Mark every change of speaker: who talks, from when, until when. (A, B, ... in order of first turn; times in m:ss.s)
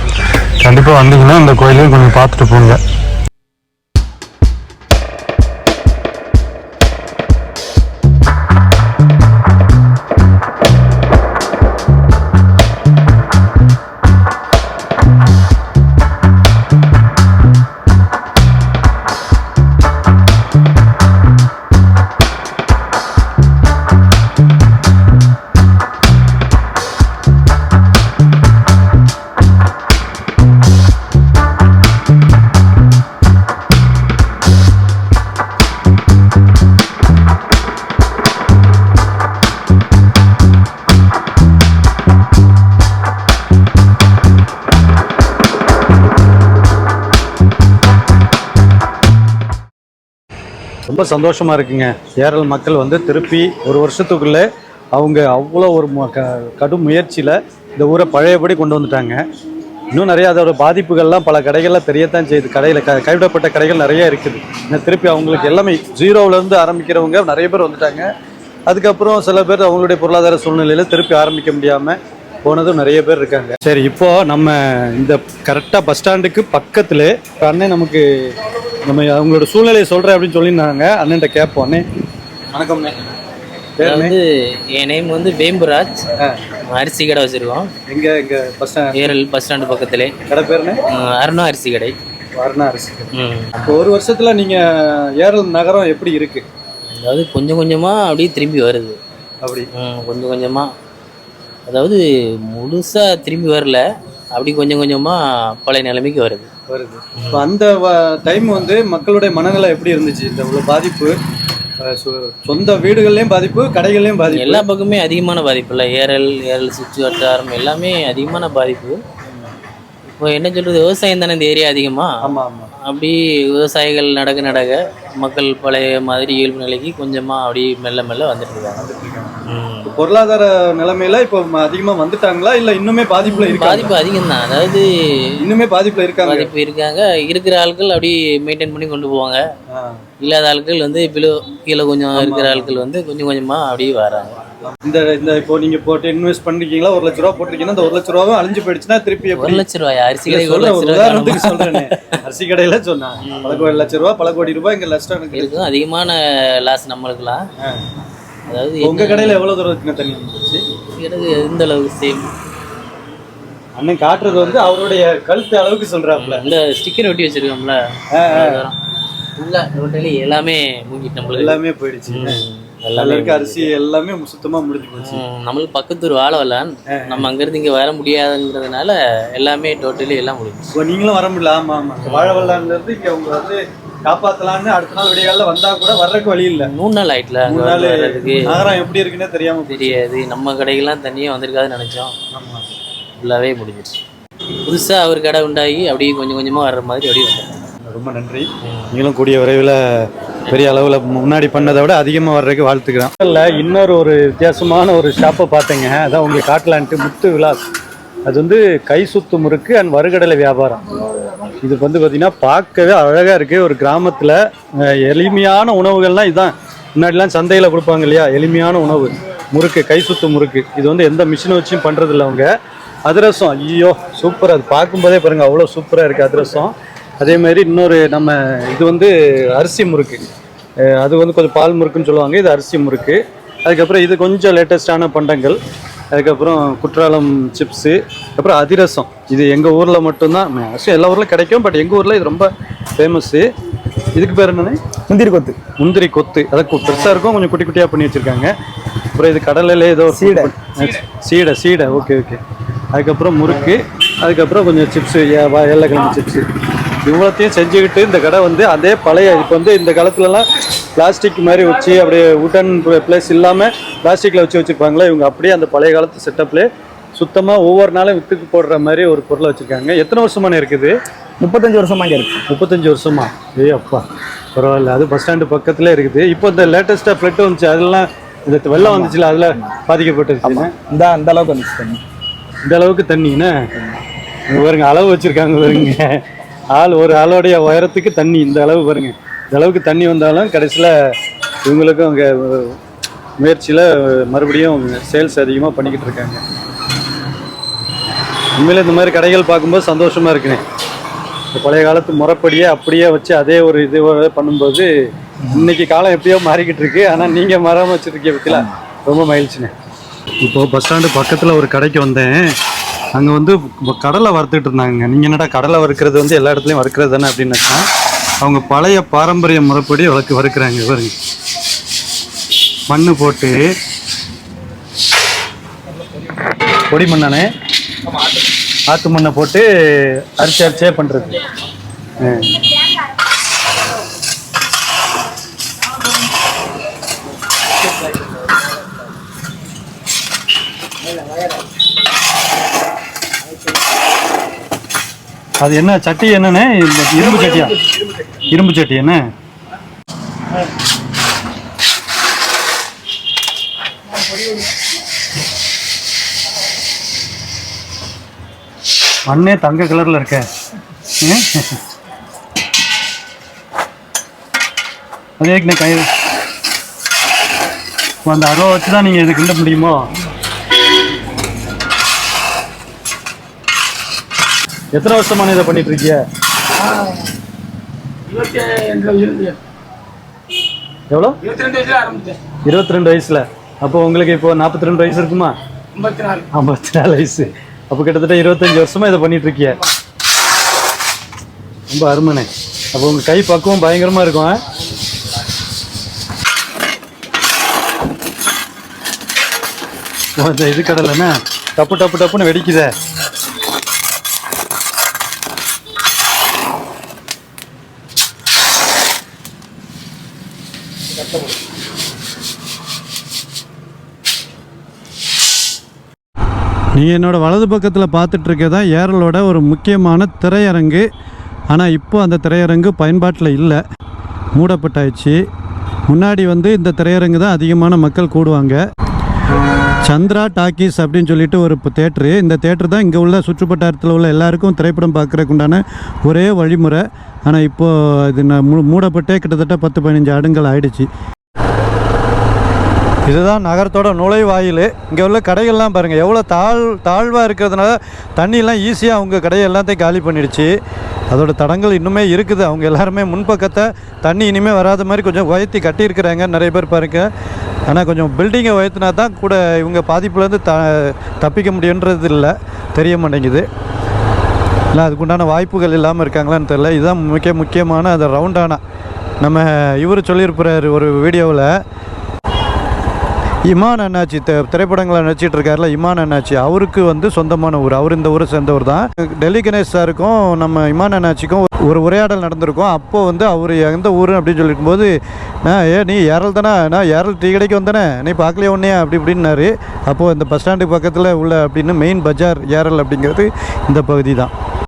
0:00.6-0:02.8 A
0:50.9-0:59.2 A
0:59.9-1:08.1 A
1:08.6-1:18.0 A
1:18.8-1:21.8 A
1:22.5-1:23.0 A
1:23.8-1:24.2 A
1:23.8-1:26.0 B
1:26.2-1:26.5 A
1:26.7-1:27.7 B
1:27.9-1:29.0 A
1:28.9-1:30.1 B
1:30.2-1:30.8 A
1:30.9-1:32.0 B
1:32.4-1:36.4 A
1:33.1-1:33.8 B
1:37.0-1:39.0 B
1:39.4-1:39.7 A
1:39.7-1:40.7 B
1:41.7-1:42.0 B
1:42.5-1:43.8 B
1:44.3-1:46.5 B
1:46.7-1:51.1 A
1:47.2-1:47.4 B
1:51.8-1:54.6 A
1:54.2-1:59.0 B
2:00.1-2:02.1 B
2:02.2-2:02.7 A
2:02.9-2:08.9 B
2:08.8-2:14.0 A
2:09.5-2:09.9 B
2:13.2-2:14.8 B
2:15.4-2:16.5 A
2:16.2-2:19.4 B
2:19.7-2:20.0 A
2:20.2-2:24.4 B
2:22.2-2:22.9 A
2:24.7-2:29.6 A
2:29.4-2:32.1 B
2:30.3-2:35.6 A
2:33.3-2:33.9 B
2:35.3-2:37.4 B
2:38.5-2:39.4 B
2:38.8-2:40.6 A
2:40.9-2:42.3 B
2:43.8-2:46.4 A
2:44.2-2:44.7 B
2:46.2-2:48.8 B
2:48.1-2:48.6 A
2:49.4-2:51.6 B
2:51.3-2:52.4 A
2:52.1-2:53.7 B
2:53.0-2:55.2 A
2:55.0-3:00.7 B
2:56.9-2:57.3 A
3:00.7-3:06.7 A
3:02.0-3:02.6 B
3:06.6-3:08.8 B
3:07.4-3:10.0 A
3:09.7-3:12.1 B
3:12.3-3:12.6 A
3:13.2-3:14.0 B
3:14.6-3:17.7 B
3:17.8-3:19.8 A
3:18.6-3:18.9 B
3:20.5-3:27.6 A
3:28.2-3:30.8 A
3:31.6-3:42.5 A
3:43.0-3:50.2 A
3:50.8-3:55.6 A
3:56.1-4:03.4 A
4:04.1-4:04.8 A
4:05.1-4:05.6 C
4:05.8-4:08.5 A
4:09.1-4:12.4 A
4:10.1-4:10.5 C
4:12.9-4:16.5 A
4:17.0-4:30.9 A
4:31.4-4:32.4 C
4:32.5-4:40.7 A
4:38.8-4:39.6 C
4:40.4-4:42.0 C
4:42.6-4:43.6 A
4:44.5-4:46.2 A
4:46.7-4:51.1 A
4:51.6-4:52.8 A
4:53.4-4:56.4 A
4:58.6-5:00.6 A
5:01.5-5:04.9 A
5:05.4-5:09.7 A
5:10.4-5:12.5 A
5:13.1-5:17.8 A
5:18.4-5:21.1 A
5:22.9-5:23.6 A
5:26.9-5:27.5 A
5:28.9-5:31.4 A
5:32.2-5:32.6 A
5:45.6-5:47.8 A
5:48.4-5:49.2 A
5:59.2-6:00.4 A
6:01.1-6:01.8 A
6:05.4-6:06.1 A
6:08.2-6:10.0 A
6:14.9-6:16.2 A
6:18.8-6:19.4 B
6:21.1-6:21.6 A
6:22.6-6:25.5 A
6:26.3-6:29.8 A
6:31.9-6:34.6 A
6:40.4-6:42.9 A
6:56.9-7:01.0 A
7:01.7-7:03.8 A
7:04.6-7:05.4 A
7:06.1-7:08.8 A
7:10.0-7:21.1 A
7:23.2-7:30.7 A
7:31.3-7:37.3 A
7:37.9-7:43.6 A
7:44.9-7:48.8 A
7:49.4-7:51.7 A
7:53.6-8:05.1 A
8:05.6-8:14.5 A